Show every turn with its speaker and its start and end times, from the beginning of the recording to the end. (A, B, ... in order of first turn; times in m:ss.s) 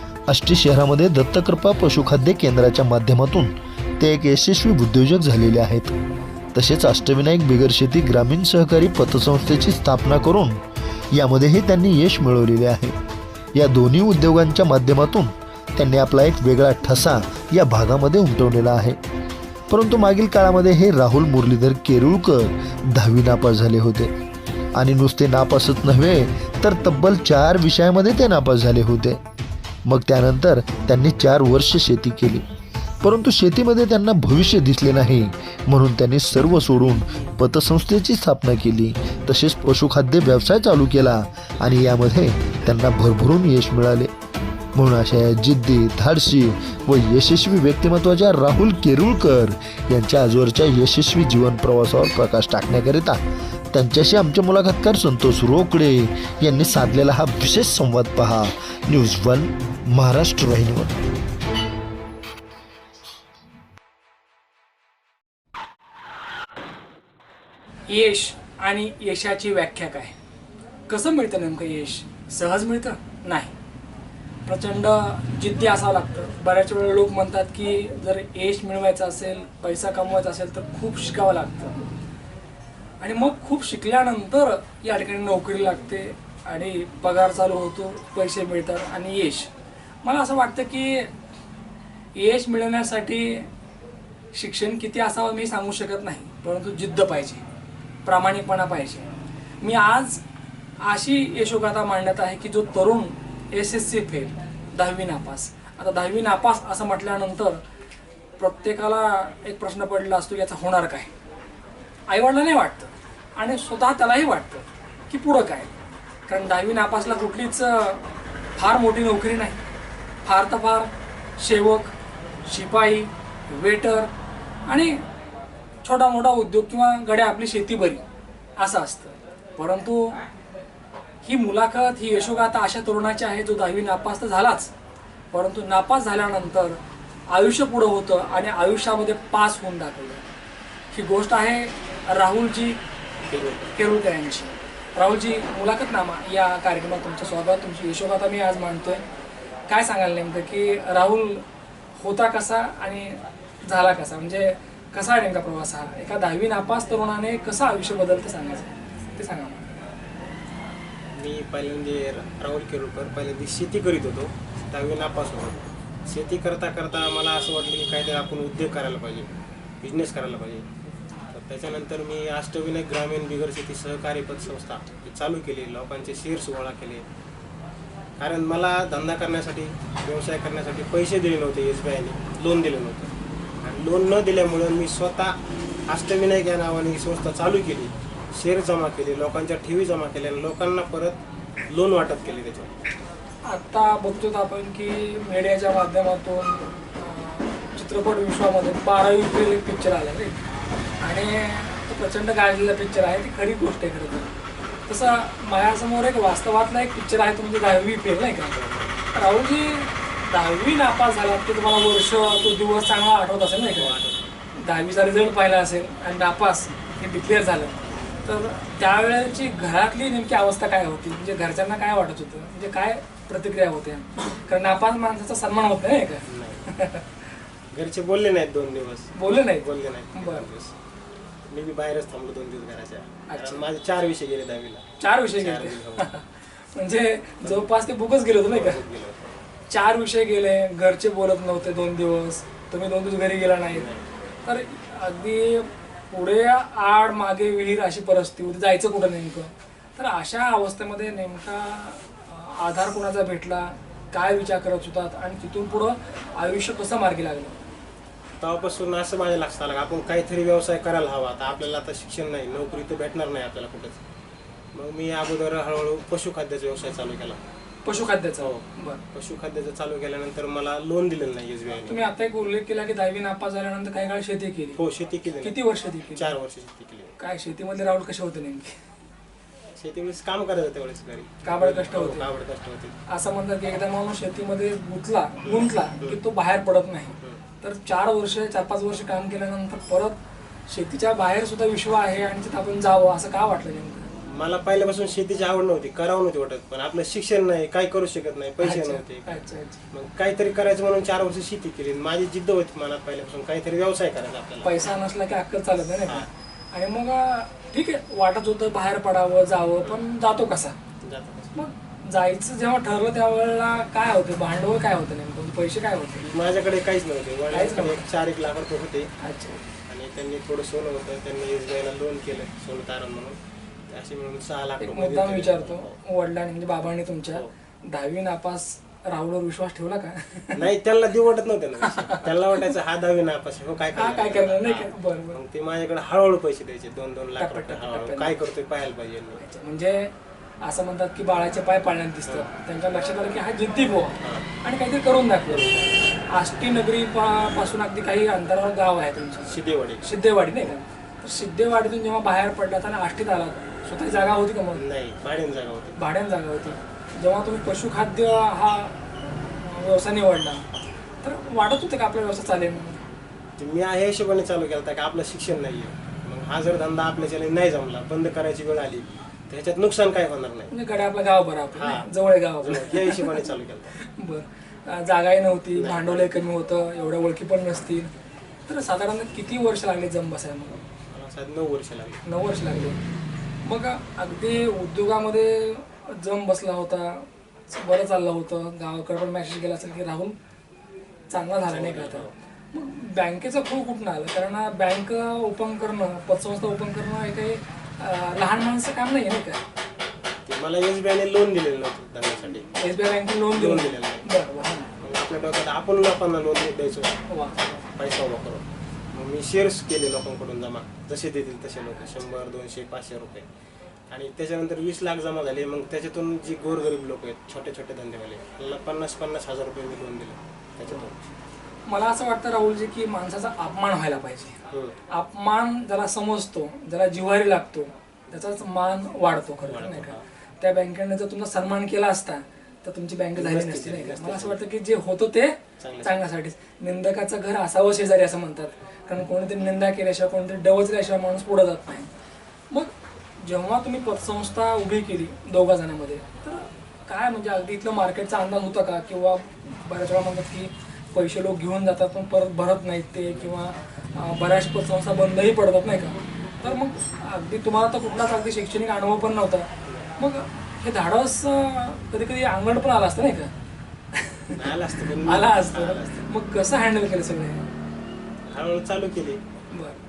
0:00.3-0:05.9 A
0:06.5-0:13.0 A
0:13.5-0:19.0 A
0:19.7-0:24.1 A
0:24.7-0:29.2 A
0:29.8-0:32.4 A
0:33.0-0:44.1 A
0:44.7-0:53.2 A
0:53.7-1:01.0 A
1:07.9-1:10.1 B
1:10.9-1:13.5 B
1:14.4-1:21.9 B
1:23.0-1:29.5 B
1:30.0-1:31.1 B
1:32.1-1:33.5 B
1:34.3-1:37.4 B
1:38.0-1:39.1 B
1:39.6-1:40.2 B
1:40.8-1:47.6 B
1:48.4-1:51.1 B
1:52.1-1:55.7 B
1:56.3-1:58.0 B
1:58.6-1:59.6 B
2:00.2-2:01.9 B
2:02.4-2:04.1 B
2:04.6-2:05.0 B
2:05.8-2:08.0 B
2:08.6-2:10.2 B
2:11.2-2:14.7 B
2:15.3-2:20.2 B
2:20.9-2:22.8 B
2:23.3-2:23.7 C
2:23.7-2:29.0 B
2:29.7-2:31.4 B
2:32.0-2:39.8 B
2:41.2-2:49.3 C
2:49.8-2:50.6 C
2:51.3-2:57.0 C
2:58.2-3:03.1 C
3:03.6-3:11.2 C
3:11.7-3:12.7 C
3:13.4-3:20.4 B
3:21.0-3:24.3 B
3:24.9-3:28.6 B
3:28.5-3:28.9 C
3:29.1-3:33.9 B
3:33.6-3:34.2 C
3:34.6-3:47.1 B
3:46.3-3:46.7 C
3:47.7-3:50.7 C
3:49.1-3:50.4 B
3:51.5-3:56.1 C
3:53.3-3:53.6 B
3:55.0-3:58.8 B
3:58.5-3:59.3 C
3:59.7-4:03.9 B
4:03.7-4:04.0 C
4:04.4-4:17.6 B
4:18.4-4:24.0 C
4:24.7-4:27.4 C
4:27.8-4:29.0 B
4:28.4-4:32.0 C
4:31.9-4:34.8 B
4:34.8-4:37.1 C
4:35.4-4:36.3 B
4:37.2-4:38.8 B
4:39.8-4:43.0 C
4:41.4-4:42.3 B
4:43.1-4:50.2 B
4:45.4-4:46.2 C
4:50.7-4:54.1 B
4:54.3-5:04.7 C
4:58.6-4:59.8 B
5:04.6-5:10.8 B
5:11.0-5:11.6 C
5:11.5-5:16.2 B
5:16.2-5:19.1 C
5:17.5-5:18.0 B
5:19.2-5:19.6 B
5:19.9-5:23.4 C
5:23.9-5:25.9 C
5:24.8-5:30.6 B
5:30.6-5:39.4 C
5:31.9-5:32.2 B
5:33.9-5:35.4 B
5:37.4-5:38.4 B
5:39.4-5:45.7 B
5:44.2-5:44.5 C
5:45.5-5:45.8 C
5:46.3-5:54.8 B
5:49.4-5:50.1 C
5:54.8-5:56.0 C
5:56.0-6:00.6 B
6:01.2-6:03.0 B
6:03.6-6:10.7 C
6:10.7-6:13.4 B
6:11.7-6:12.0 C
6:12.6-6:13.9 C
6:14.0-6:18.1 B
6:15.8-6:16.4 C
6:18.7-6:20.8 B
6:21.1-6:22.2 C
6:22.2-6:23.0 B
6:23.6-6:30.3 B
6:31.3-6:39.6 B
6:31.7-6:32.3 C
6:40.5-6:42.7 C
6:42.7-6:44.9 B
6:43.5-6:44.3 C
6:45.0-6:47.2 C
6:47.3-6:47.6 B
6:47.8-6:53.4 C
6:54.1-7:01.1 C
7:01.9-7:04.6 B
7:04.7-7:05.0 C
7:05.1-7:22.1 B
7:09.7-7:10.2 C
7:13.4-7:14.6 C
7:15.8-7:16.2 C
7:22.7-7:43.5 B
7:44.1-7:47.7 B
7:44.6-7:46.3 C
7:48.5-7:49.4 C
7:49.7-7:50.0 B